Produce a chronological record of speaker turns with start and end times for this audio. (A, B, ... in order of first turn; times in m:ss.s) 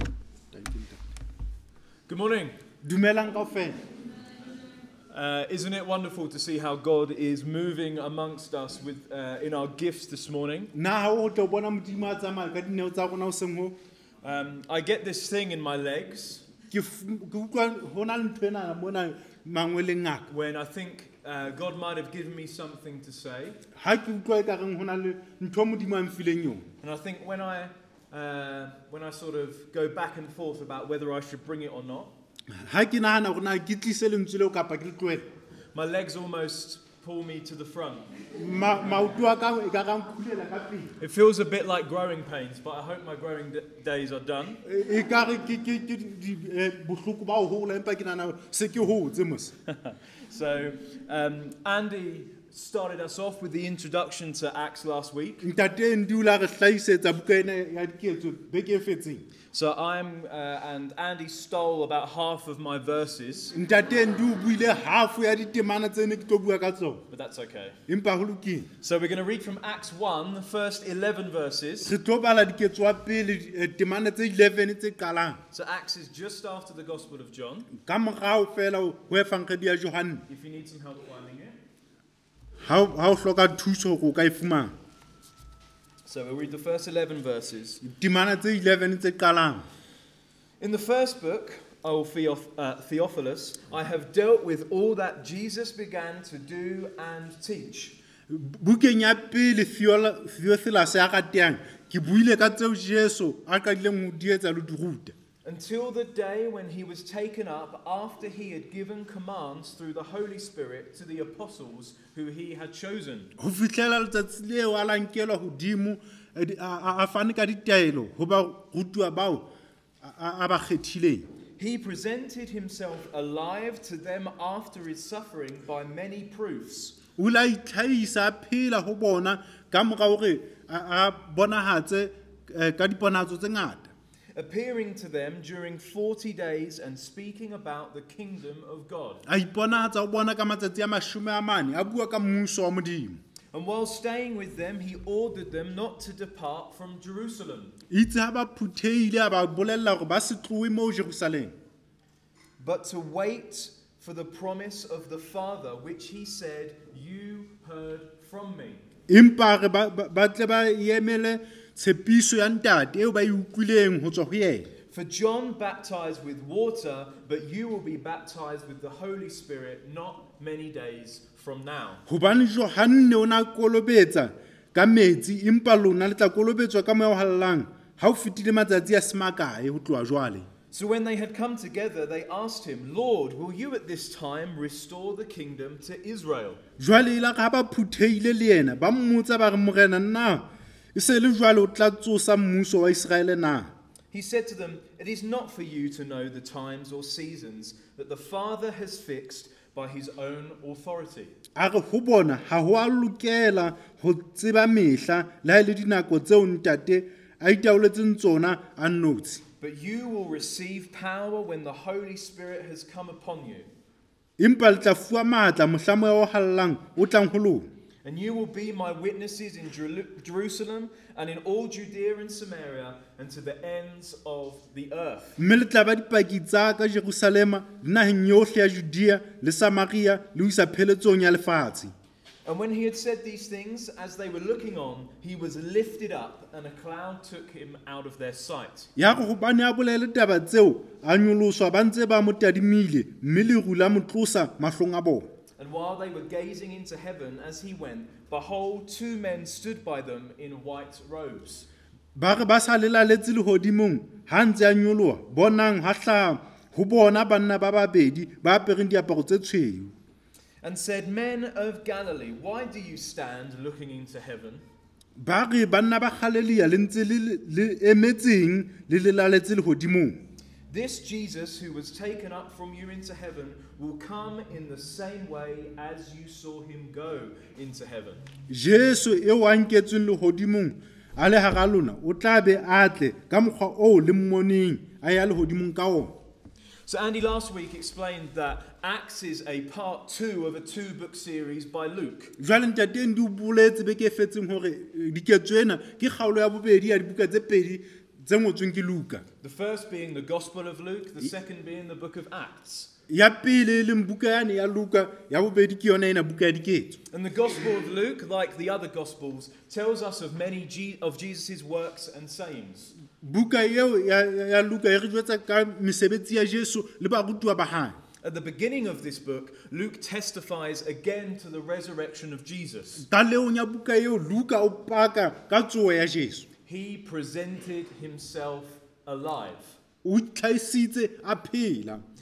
0:00.5-0:01.0 A
0:02.1-0:02.6 B
0:02.8-0:03.8 A
0:05.1-0:10.7 B
0:10.7-0:13.7 A
0:14.2-0:16.4 B
0:16.7-0:20.3 A
0:20.3-0:23.6 B
0:23.8-0:26.7 A
0:26.8-0:32.1 B
0:32.5-0:35.3 A
0:35.7-0:38.1 B
0:38.4-0:40.9 A
0:41.0-0:44.6 B
0:44.6-0:49.5 A
0:49.7-0:55.5 B
0:55.4-0:59.3 A
0:59.5-1:03.5 B
1:03.5-1:07.0 A
1:07.1-1:07.8 B
1:07.9-1:08.7 A
1:08.8-1:11.9 B
1:11.8-1:15.4 A
1:15.5-1:17.7 B
1:17.8-1:20.2 A
1:20.3-1:21.6 B
1:22.6-1:24.7 A
1:26.0-1:27.8 B
1:27.8-1:29.6 A
1:30.6-1:38.0 B
1:38.3-1:45.1 A
1:45.4-1:53.3 B
1:53.4-1:59.5 A
2:00.0-2:01.3 A
2:01.6-2:07.0 B
2:07.2-2:13.9 A
2:14.3-2:19.2 B
2:19.2-2:23.2 A
2:23.5-2:27.7 B
2:27.9-2:31.5 A
2:32.6-2:38.9 B
2:39.1-2:44.7 A
2:44.9-2:52.0 B
2:52.1-3:00.5 A
3:00.7-3:06.6 B
3:06.8-3:13.7 A
3:14.1-3:21.3 B
3:21.6-3:29.4 A
3:29.6-3:33.7 B
3:34.4-3:37.7 A
3:38.0-3:45.4 B
3:45.4-3:51.9 A
3:52.4-3:59.0 B
3:59.0-4:05.3 A
4:05.6-4:11.7 B
4:12.1-4:19.9 A
4:20.6-4:24.6 B
4:25.2-4:30.2 A
4:30.7-4:38.2 B
4:38.5-4:46.2 A
4:46.8-4:52.3 B
4:52.4-4:59.2 A
4:59.4-5:02.9 B
5:03.1-5:07.0 A
5:07.1-5:12.9 B
5:13.1-5:18.0 A
5:18.2-5:23.0 B
5:23.0-5:26.5 A
5:26.6-5:29.8 B
5:30.0-5:32.0 A